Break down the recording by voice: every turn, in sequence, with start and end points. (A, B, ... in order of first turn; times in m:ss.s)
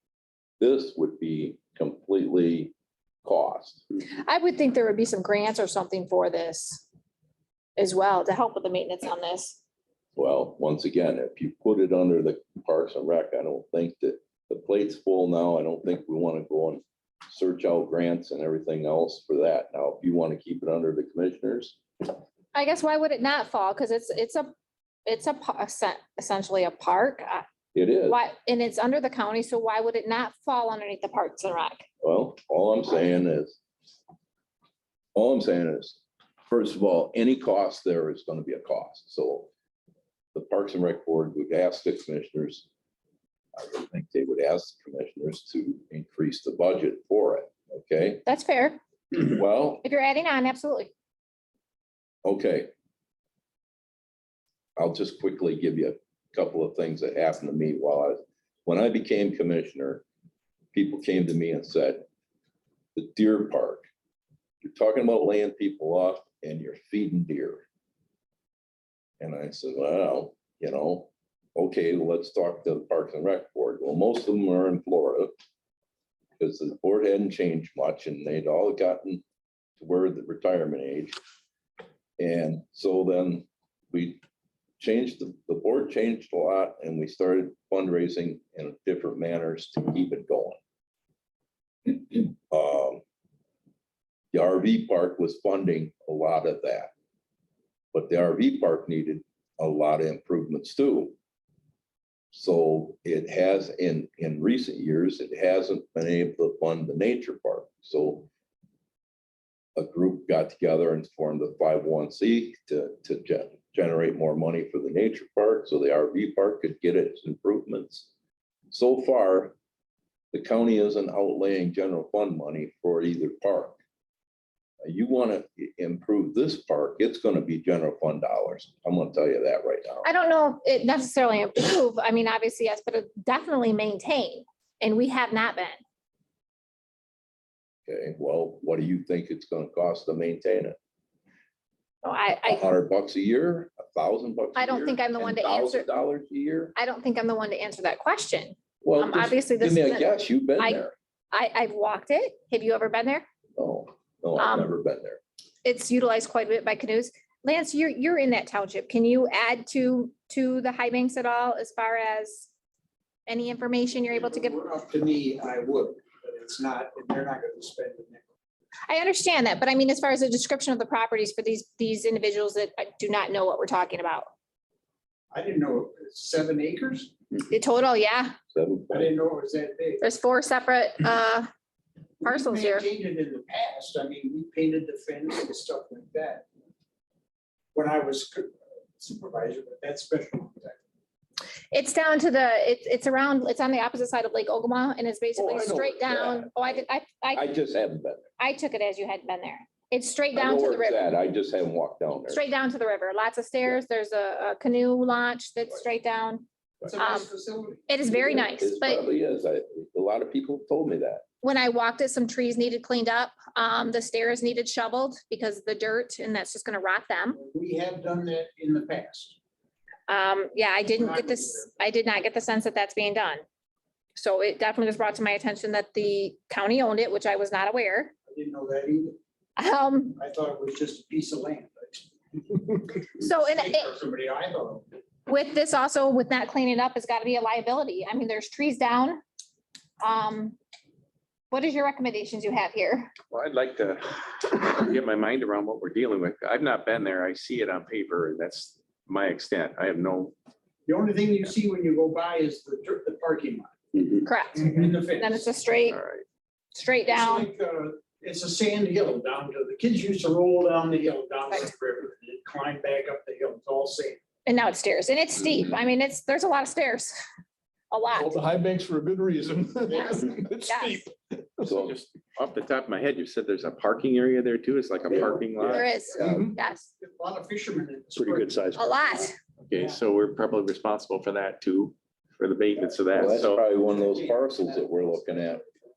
0:00.6-0:03.8 A
0:04.1-0:06.8 B
0:07.8-0:09.6 B
0:10.2-0:21.8 A
0:22.5-0:24.5 B
0:25.0-0:27.4 B
0:27.7-0:28.2 A
0:28.1-0:31.8 B
0:32.0-0:33.6 A
0:35.1-0:39.5 A
0:40.3-0:42.7 A
0:43.5-0:48.2 A
0:48.2-0:48.8 B
0:49.1-0:49.8 A
0:49.8-0:50.9 B
0:52.2-0:52.7 A
0:54.8-1:00.0 A
1:00.7-1:02.1 A
1:02.9-1:03.9 A
1:04.6-1:07.6 A
1:09.2-1:15.3 A
1:16.4-1:19.2 A
1:19.8-1:21.2 A
1:22.2-1:24.2 A
1:24.8-1:30.6 A
1:31.8-1:33.0 A
1:34.3-1:36.9 A
1:37.9-1:41.1 A
1:42.3-1:48.3 A
1:49.8-1:58.1 A
1:58.7-1:59.6 A
2:00.3-2:03.8 A
2:04.8-2:10.1 A
2:10.0-2:15.8 B
2:17.9-2:20.8 A
2:22.0-2:22.6 B
2:22.4-2:26.7 A
2:24.6-2:25.9 B
2:26.8-2:33.2 B
2:28.8-2:30.9 A
2:33.6-2:35.2 A
2:34.4-2:34.7 B
2:35.6-2:42.5 B
2:43.3-2:44.5 B
2:44.1-2:48.2 C
2:48.9-2:54.3 B
2:55.3-2:57.1 C
2:57.5-2:58.4 B
2:58.5-2:59.1 A
2:58.9-3:00.0 C
3:00.0-3:01.5 B
3:02.2-3:06.4 C
3:02.2-3:02.9 B
3:07.7-3:10.8 C
3:11.7-3:17.4 B
3:15.4-3:18.3 A
3:18.4-3:21.0 B
3:20.3-3:22.4 A
3:22.3-3:26.4 B
3:26.8-3:27.9 C
3:27.0-3:27.3 B
3:27.9-3:29.0 B
3:28.1-3:31.2 A
3:31.4-3:37.4 B
3:37.3-3:39.4 C
3:40.1-3:43.4 B
3:40.9-3:41.7 C
3:44.2-3:48.1 B
3:48.3-3:49.2 C
3:49.6-3:50.2 B
3:50.2-3:54.9 C
3:53.2-3:53.9 B
3:55.3-3:59.2 B
4:00.0-4:00.6 B
4:01.5-4:03.1 B
4:03.3-4:10.3 D
4:10.8-4:13.8 C
4:14.2-4:16.0 B
4:14.5-4:15.4 C
4:15.9-4:16.2 D
4:16.7-4:17.5 B
4:17.1-4:24.2 C
4:24.4-4:27.1 B
4:27.9-4:28.4 B
4:28.1-4:31.8 E
4:29.9-4:30.4 C
4:29.9-4:31.0 B
4:31.6-4:31.9 A
4:31.8-4:35.9 D
4:35.0-4:36.3 C
4:35.7-4:36.9 B
4:36.2-4:36.5 E
4:37.0-4:38.7 C
4:38.2-4:39.1 E
4:38.7-4:39.3 B
4:39.7-4:43.6 D
4:39.7-4:40.0 C
4:43.1-4:45.6 A
4:43.7-4:45.7 C